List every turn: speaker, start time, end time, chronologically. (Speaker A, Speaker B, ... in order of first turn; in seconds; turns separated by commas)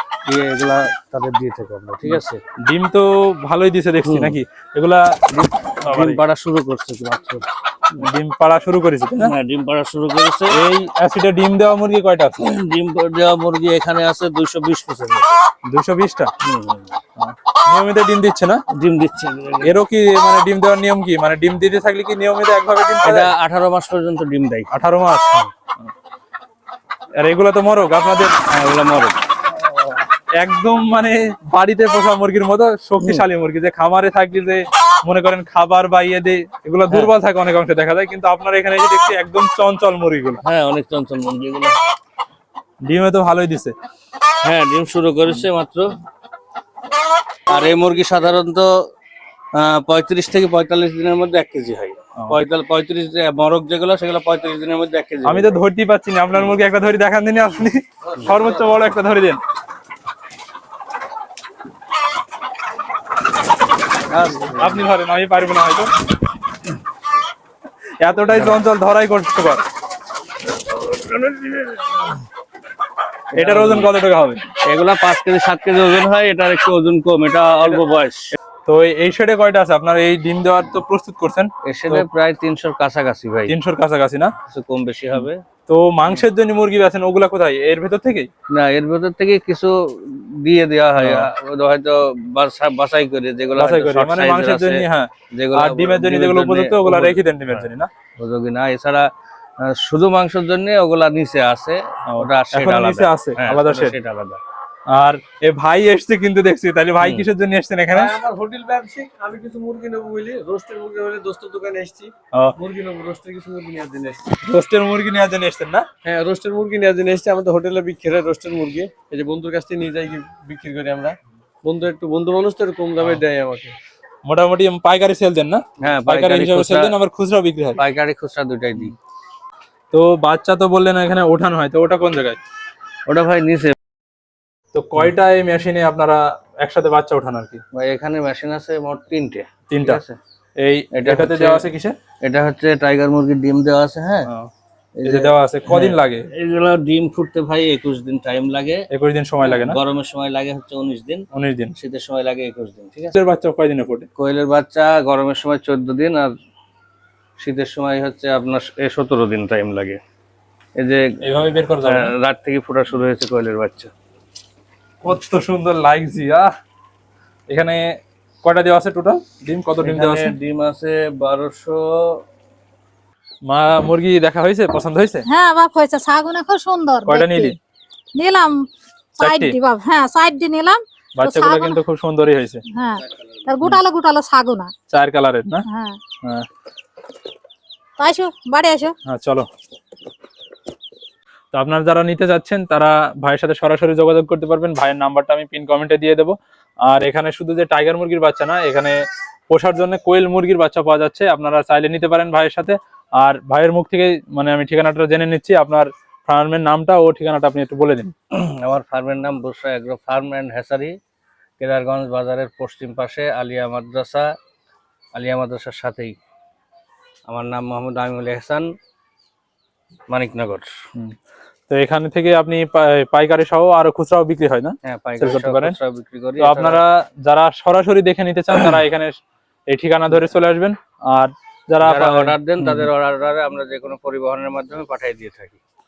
Speaker A: 0.3-2.4, Speaker B: 2.0-5.2, Speaker A: 4.0-4.4, Speaker A: 5.3-8.0, Speaker B: 5.8-6.2, Speaker B: 8.0-9.3, Speaker A: 9.2-10.6, Speaker B: 10.5-12.4, Speaker A: 12.4-15.3, Speaker B: 15.7-16.3, Speaker A: 16.4-17.0, Speaker B: 17.2-18.6, Speaker A: 18.7-19.7, Speaker B: 19.6-23.3, Speaker A: 23.0-24.7, Speaker B: 24.7-25.5, Speaker B: 27.2-28.3, Speaker A: 28.5-29.2, Speaker B: 30.4-40.4, Speaker A: 40.4-41.8, Speaker B: 42.8-43.7, Speaker A: 44.4-45.9, Speaker A: 47.5-48.7, Speaker A: 49.5-55.6, Speaker B: 55.2-59.4, Speaker A: 64.1-64.9, Speaker B: 64.5-65.9, Speaker B: 68.0-69.6, Speaker A: 70.8-72.2, Speaker A: 73.3-73.9, Speaker B: 73.3-74.5, Speaker A: 74.6-78.3, Speaker B: 78.7-82.0, Speaker A: 81.7-83.5, Speaker B: 83.5-84.3, Speaker A: 84.5-85.4, Speaker B: 85.2-88.3, Speaker A: 88.5-97.7, Speaker B: 91.0-91.3, Speaker B: 93.5-97.9, Speaker A: 98.2-99.0, Speaker A: 99.6-104.4, Speaker B: 102.1-104.0, Speaker B: 104.9-108.1, Speaker C: 107.9-114.3, Speaker B: 114.4-115.8, Speaker C: 116.0-123.7, Speaker B: 124.2-127.8, Speaker A: 125.8-126.9, Speaker A: 127.7-128.9, Speaker B: 129.9-132.4, Speaker A: 133.1-133.7, Speaker B: 134.7-137.6, Speaker A: 137.7-140.2, Speaker B: 139.7-140.0, Speaker B: 140.6-142.0, Speaker A: 140.9-141.6, Speaker A: 142.2-144.3, Speaker A: 145.0-148.8, Speaker B: 145.0-146.2, Speaker B: 148.9-149.8, Speaker A: 149.4-153.1, Speaker B: 151.3-151.7, Speaker B: 153.1-154.1, Speaker A: 154.2-156.3, Speaker A: 157.4-160.0, Speaker A: 160.8-161.0, Speaker B: 161.2-162.1, Speaker A: 161.8-163.9, Speaker B: 165.0-166.5, Speaker B: 167.5-167.8, Speaker B: 168.4-170.3, Speaker A: 169.8-172.2, Speaker B: 173.5-175.2, Speaker D: 175.3-177.6, Speaker B: 177.1-177.5, Speaker D: 178.2-178.6, Speaker D: 179.2-181.8, Speaker B: 179.2-179.5, Speaker B: 181.2-182.6, Speaker D: 182.7-184.7, Speaker B: 184.9-185.7, Speaker D: 185.7-186.0, Speaker D: 188.0-188.9, Speaker B: 189.1-189.5, Speaker B: 191.5-196.3, Speaker B: 196.8-199.0, Speaker B: 199.5-208.1, Speaker A: 208.3-210.9, Speaker A: 211.6-214.3, Speaker A: 215.1-216.2, Speaker A: 217.3-218.7, Speaker A: 220.1-220.7, Speaker B: 221.7-225.8, Speaker A: 224.8-226.8, Speaker B: 226.4-229.1, Speaker B: 229.7-232.9, Speaker A: 231.8-235.6